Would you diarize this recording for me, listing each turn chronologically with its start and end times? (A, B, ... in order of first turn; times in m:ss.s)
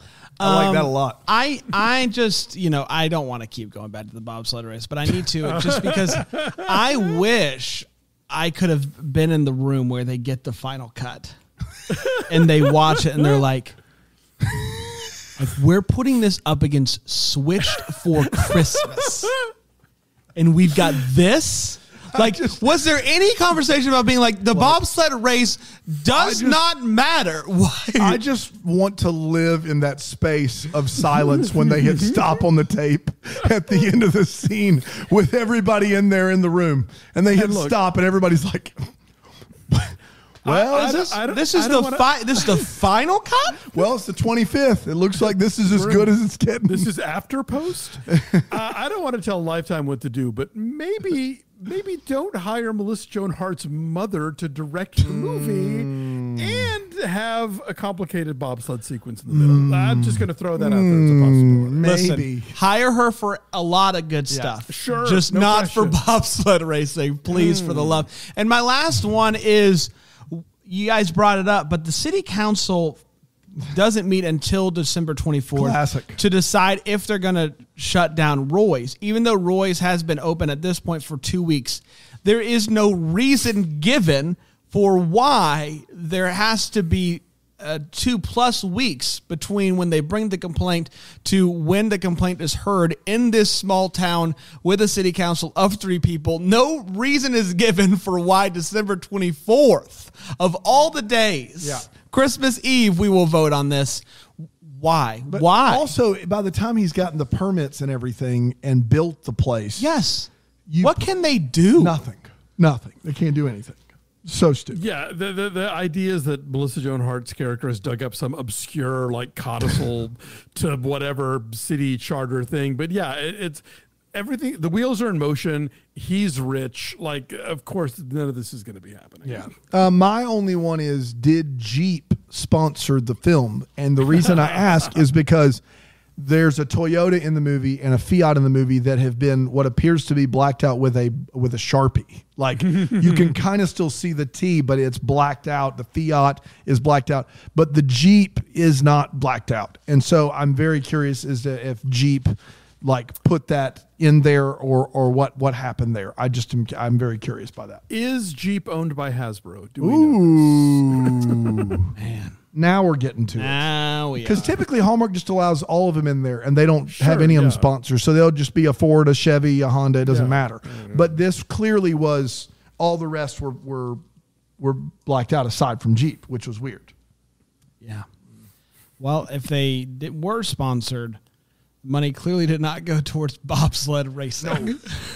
0:00.4-0:11.4 A
0:00.4-0:01.2 B
0:05.4-0:06.7 C
0:11.9-0:12.2 C
0:12.1-0:13.8 A
0:15.4-0:19.3 A
0:20.4-0:28.2 A
0:22.1-0:22.6 B
0:26.1-0:26.6 B
0:28.0-0:38.9 B
0:37.3-0:37.8 C
0:39.7-0:41.1 B
0:40.4-0:42.7 C
0:40.7-0:43.7 A
0:43.7-0:46.9 B
0:45.7-0:46.1 C
0:46.7-1:01.8 C
0:48.1-0:48.5 B
0:55.0-0:56.7 B
0:59.3-1:02.6 B
1:01.8-1:13.0 A
1:04.7-1:06.0 C
1:07.4-1:07.8 C
1:13.6-1:45.9 A
1:15.6-1:16.2 B
1:41.6-1:41.9 B
1:45.3-1:49.9 B
1:49.8-1:50.3 A
1:50.7-1:51.1 B
1:50.8-1:52.0 A
1:51.8-1:54.8 B
1:54.7-2:03.6 C
2:04.1-2:09.5 C
2:09.3-2:15.6 B
2:16.2-2:37.8 B
2:37.9-2:41.4 C
2:39.8-2:41.9 B
2:42.0-2:42.4 A
2:42.5-2:43.7 B
2:43.4-2:44.6 A
2:44.2-2:54.0 B
2:46.9-2:47.7 C
2:50.0-2:51.1 C
2:54.6-2:56.9 B
2:57.8-2:58.1 A
2:59.0-3:01.2 A
3:01.8-3:05.0 A
3:04.4-3:04.8 B